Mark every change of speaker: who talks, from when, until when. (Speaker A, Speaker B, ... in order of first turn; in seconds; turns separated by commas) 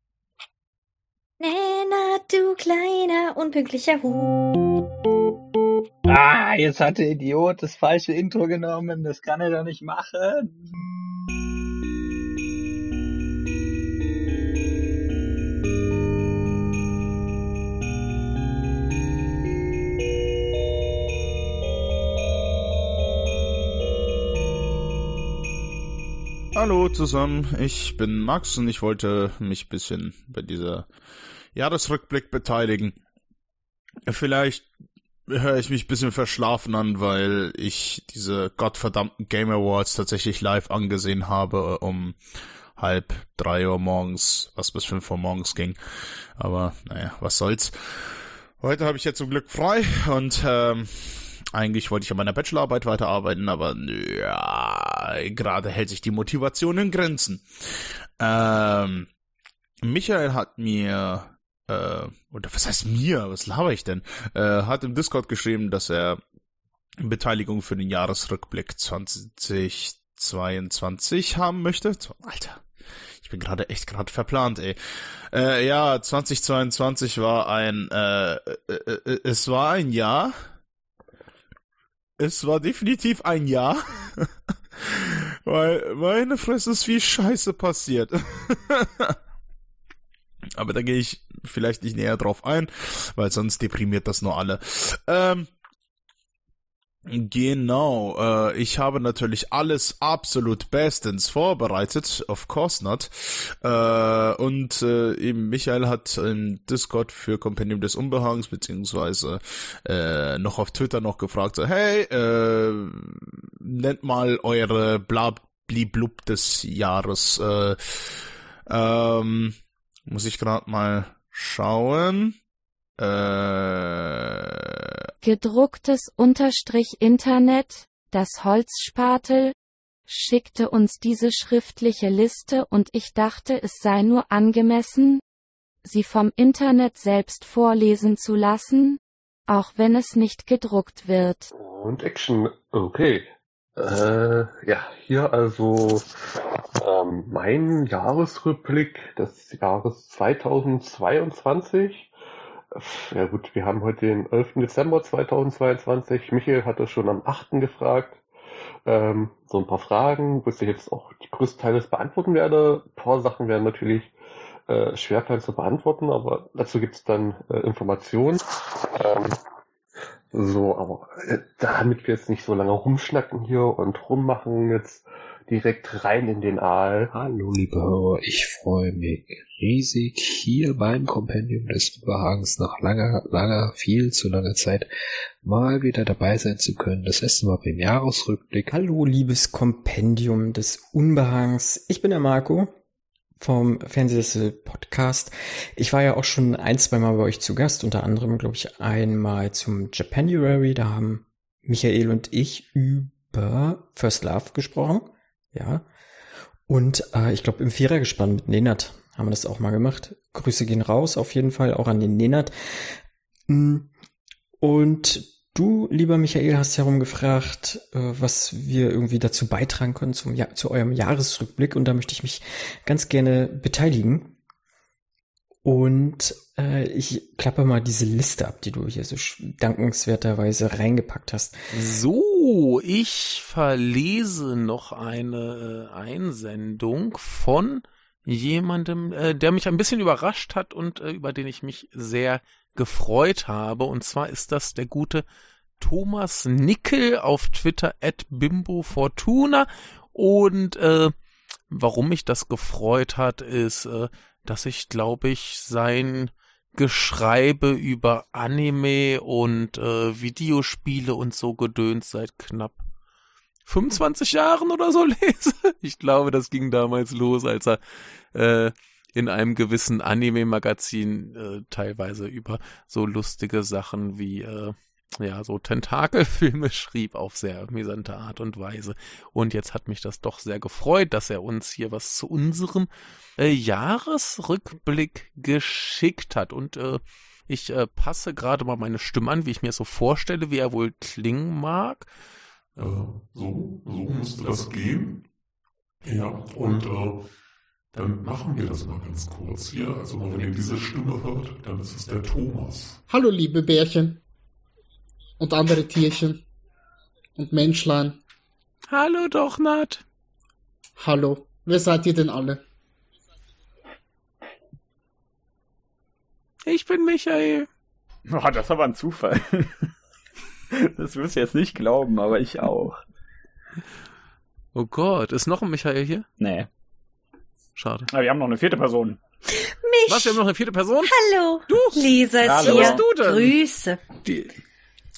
Speaker A: 1.4-4.3, Speaker B: 6.0-10.8, Speaker C: 26.5-30.9, Speaker C: 31.5-33.0, Speaker C: 34.1-34.7, Speaker C: 35.3-42.2, Speaker C: 42.8-45.8, Speaker C: 46.4-59.1, Speaker C: 59.8-66.2, Speaker C: 67.0-72.6, Speaker C: 73.2-74.8, Speaker C: 75.3-80.4, Speaker C: 82.2-84.3, Speaker C: 84.8-89.2, Speaker C: 90.6-95.5, Speaker C: 97.1-122.4, Speaker C: 123.0-125.0, Speaker D: 125.2-129.5, Speaker D: 130.1-135.2, Speaker D: 135.8-141.5, Speaker E: 141.6-152.1, Speaker E: 152.7-158.2, Speaker E: 158.8-164.1, Speaker E: 164.7-169.3, Speaker E: 170.3-177.1, Speaker F: 177.1-184.9, Speaker F: 185.4-188.7, Speaker G: 188.7-192.7, Speaker G: 193.4-205.8, Speaker G: 206.7-212.9, Speaker G: 213.5-213.9, Speaker G: 214.6-224.3, Speaker G: 225.6-231.6, Speaker H: 231.7-245.2, Speaker H: 245.8-251.1, Speaker H: 251.7-262.8, Speaker H: 263.7-267.8, Speaker H: 268.3-292.1, Speaker I: 292.8-295.2, Speaker I: 296.0-297.2, Speaker I: 297.9-303.0, Speaker J: 303.1-304.2, Speaker J: 305.4-306.4, Speaker J: 307.4-308.2, Speaker H: 308.9-310.0, Speaker J: 311.0-312.6, Speaker H: 316.6-317.7, Speaker B: 318.3-319.9, Speaker B: 320.7-323.0, Speaker H: 324.7-326.3, Speaker B: 326.4-326.7, Speaker H: 327.8-328.1, Speaker B: 328.1-329.2, Speaker A: 329.6-330.4, Speaker H: 330.1-331.1, Speaker A: 331.0-334.0, Speaker H: 331.7-332.0, Speaker B: 332.4-333.0, Speaker H: 332.5-333.5, Speaker H: 334.2-334.5